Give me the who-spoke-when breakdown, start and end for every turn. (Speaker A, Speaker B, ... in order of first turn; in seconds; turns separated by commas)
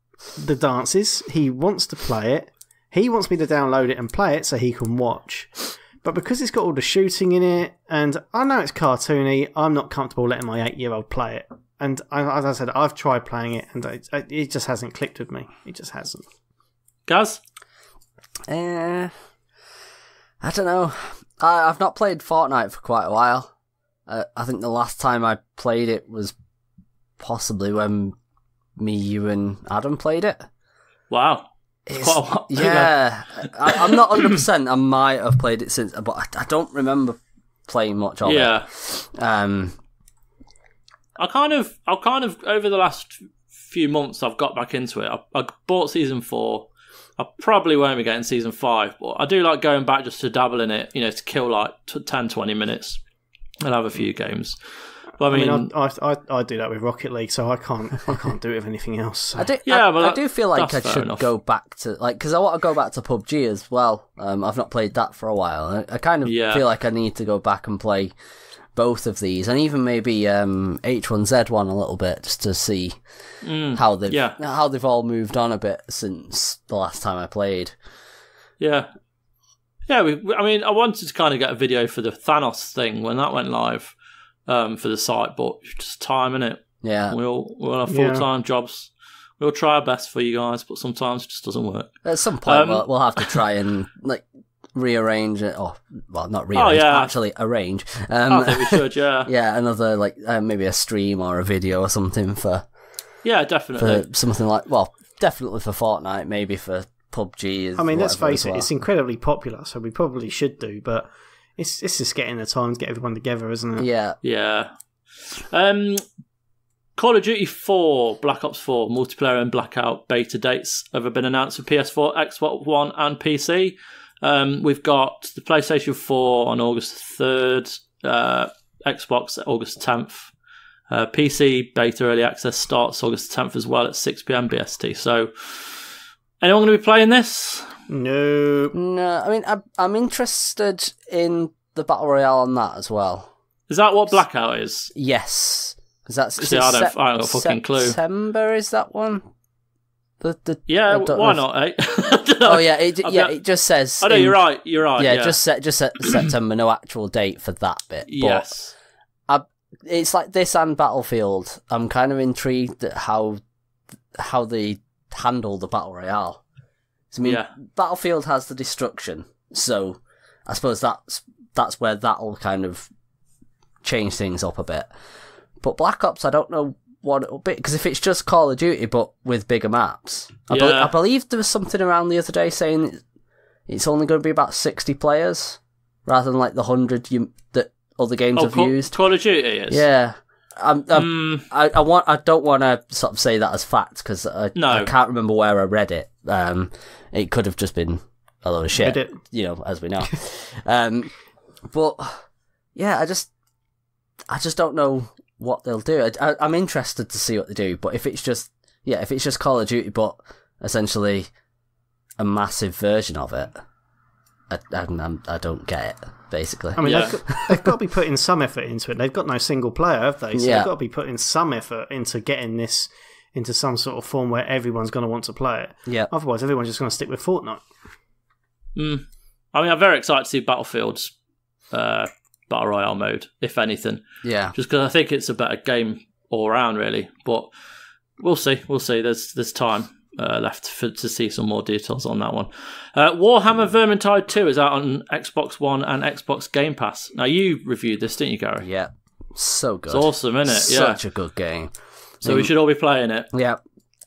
Speaker A: 0.4-16.3, Speaker B: 17.1-17.4, Speaker C: 18.5-19.1, Speaker C: 20.4-23.5, Speaker C: 24.1-26.3, Speaker C: 27.2-28.2, Speaker C: 28.8-30.5, Speaker B: 31.1-34.4, Speaker C: 31.9-39.8, Speaker B: 38.2-38.7, Speaker B: 41.2-53.0, Speaker B: 53.6-54.6, Speaker B: 55.2-55.7, Speaker A: 55.3-59.5, Speaker C: 59.4-68.1, Speaker B: 59.7-61.3, Speaker B: 66.2-66.6, Speaker C: 68.8-73.0, Speaker B: 73.4-74.4, Speaker C: 73.7-77.8, Speaker B: 78.6-78.9, Speaker B: 79.9-83.9, Speaker B: 84.5-91.9, Speaker C: 86.8-87.2, Speaker A: 87.9-88.3, Speaker C: 92.0-102.7, Speaker B: 92.5-93.4, Speaker B: 96.5-97.1, Speaker B: 98.3-99.3, Speaker B: 103.2-104.1, Speaker C: 103.8-108.7, Speaker A: 107.8-113.9, Speaker C: 113.8-114.2, Speaker B: 114.2-114.7, Speaker B: 115.2-116.0, Speaker B: 117.0-130.3, Speaker B: 130.9-135.8, Speaker B: 136.4-137.7, Speaker A: 137.9-138.8, Speaker C: 138.7-143.3, Speaker B: 143.7-144.9, Speaker C: 144.9-149.2, Speaker B: 146.4-148.0, Speaker C: 150.2-151.4, Speaker B: 150.7-153.3, Speaker C: 152.4-154.4, Speaker B: 154.0-155.4, Speaker C: 155.0-158.5, Speaker B: 158.1-158.7, Speaker C: 159.3-163.4, Speaker C: 164.1-166.4, Speaker C: 167.1-172.9, Speaker B: 167.2-167.5, Speaker C: 173.8-174.9, Speaker C: 175.6-183.0, Speaker B: 180.5-180.9, Speaker C: 183.7-188.9, Speaker B: 188.4-189.8, Speaker C: 189.7-201.1, Speaker B: 190.9-191.5, Speaker B: 194.6-194.9, Speaker A: 198.8-199.2, Speaker C: 201.7-203.3, Speaker C: 204.3-211.3, Speaker C: 212.2-213.5, Speaker C: 214.5-217.6, Speaker A: 216.8-227.6, Speaker B: 216.8-217.2, Speaker C: 220.3-220.7, Speaker B: 228.8-231.1, Speaker B: 231.7-234.0, Speaker C: 234.2-234.5, Speaker B: 234.5-237.5, Speaker B: 238.2-248.7, Speaker C: 248.6-252.5, Speaker B: 249.9-251.0, Speaker B: 252.2-253.3, Speaker C: 253.3-253.6